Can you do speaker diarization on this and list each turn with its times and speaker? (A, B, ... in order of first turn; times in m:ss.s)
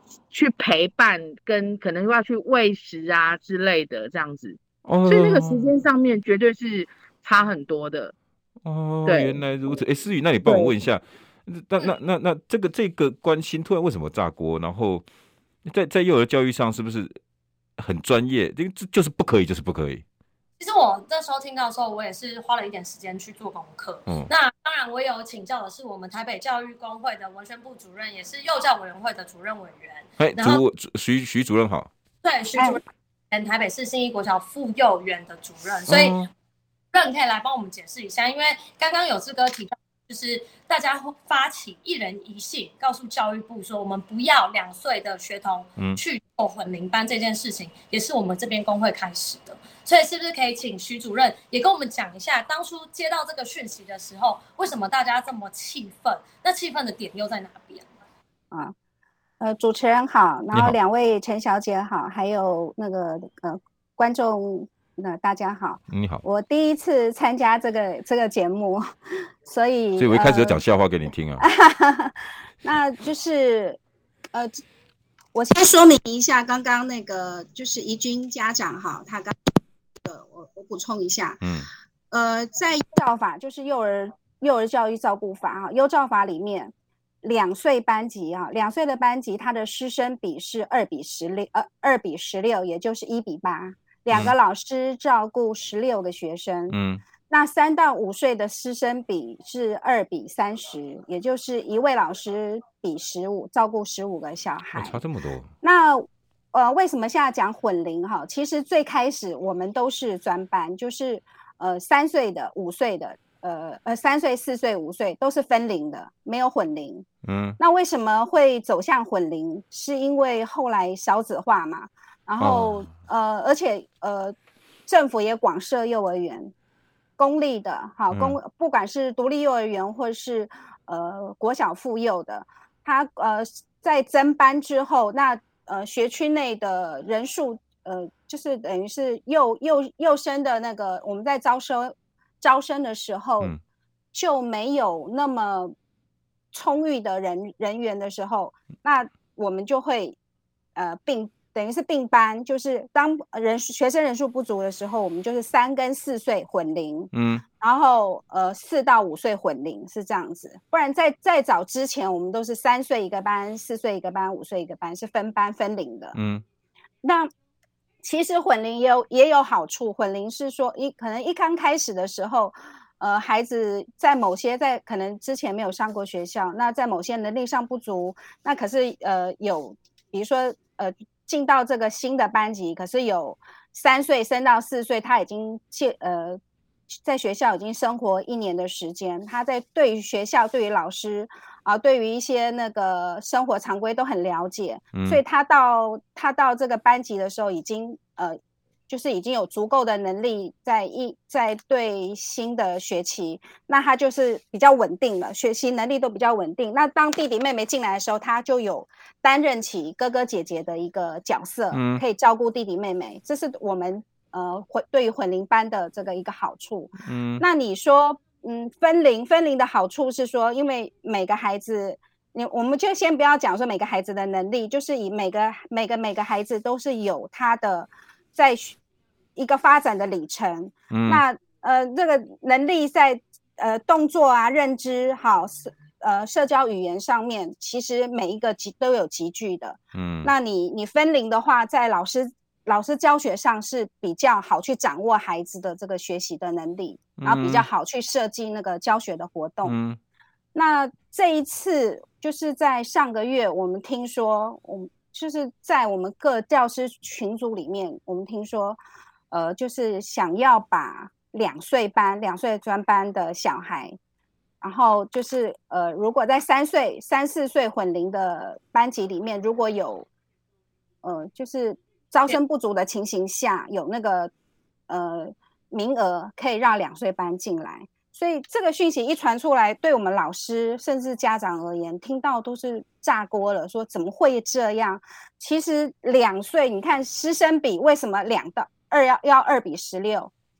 0:00.3-0:08.1 A
0:04.8-0:05.6 B
0:08.6-0:15.0 B
0:09.0-0:09.4 A
0:10.4-0:10.7 A
0:15.7-0:17.1 B
0:17.8-0:20.0 B
0:20.6-0:30.6 C
0:30.2-0:31.9 B
0:32.2-0:36.2 C
0:35.9-0:36.3 B
0:36.9-0:57.9 C
0:59.4-1:08.8 D
1:05.9-1:06.2 B
1:09.4-1:10.6 D
1:10.0-1:11.4 B
1:11.4-1:13.8 D
1:14.3-1:14.6 D
1:15.3-1:19.4 D
1:20.0-1:21.4 D
1:21.4-1:21.7 B
1:22.1-1:26.7 D
1:27.2-1:36.8 D
1:36.7-1:37.0 B
1:37.3-1:45.0 D
1:44.7-1:45.4 B
1:45.6-1:57.1 D
1:57.2-1:57.6 B
1:57.6-2:04.3 D
2:02.4-2:02.8 B
2:04.9-2:06.5 D
2:07.2-2:23.5 D
2:08.1-2:08.4 B
2:24.1-2:25.7 D
2:26.5-2:30.2 D
2:30.8-2:46.2 D
2:37.1-2:37.4 B
2:46.1-2:46.4 B
2:47.0-2:47.3 D
2:48.0-3:06.4 D
3:07.0-3:48.8 D
3:14.9-3:15.2 B
3:31.7-3:32.0 B
3:37.0-3:37.4 B
3:49.4-4:09.8 D
3:50.9-3:51.2 B
3:59.9-4:00.3 B
4:07.2-4:07.6 B
4:09.6-4:10.0 B
4:10.5-4:18.8 D
4:19.3-4:24.0 D
4:24.6-4:30.1 D
4:31.0-4:34.3 D
4:34.9-4:50.3 D